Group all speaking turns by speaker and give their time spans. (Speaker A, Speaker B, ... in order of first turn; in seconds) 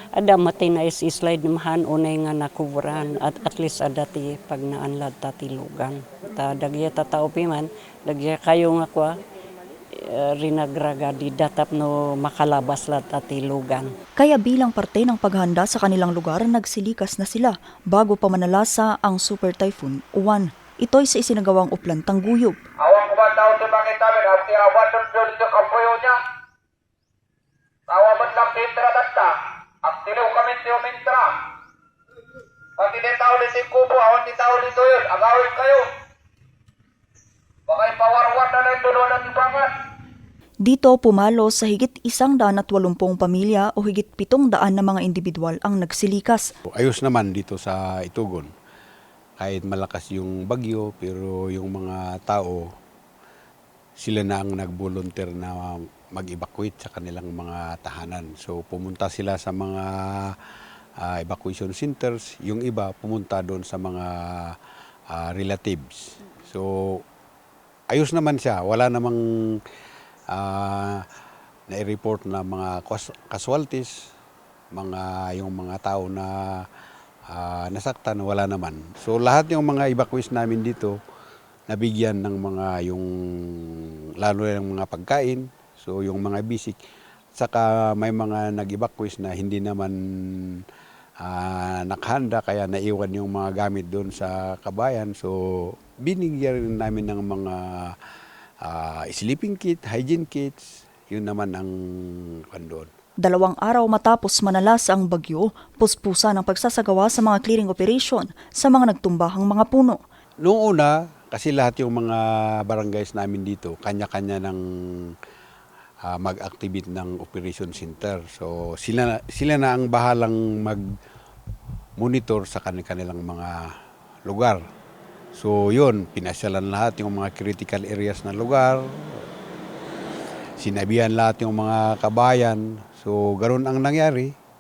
Speaker A: 0.1-9.1, 9.9-13.9
Speaker B: 14.2-22.6, 40.6-46.4, 103.2-110.0
Speaker C: 22.8-26.2, 27.9-31.4, 32.8-35.9, 37.7-39.7
Speaker D: 46.7-48.5, 49.4-52.6, 54.0-60.4, 61.0-64.6, 65.1-67.0, 67.9-69.6, 70.3-71.0, 71.7-73.9, 74.7-76.6, 77.3-80.9, 81.7-86.8, 87.3-90.6, 91.2-97.9, 98.6-102.9, 110.4-115.1, 116.0-120.8, 122.0-123.7, 124.3-124.6, 125.3-129.2, 130.6-134.3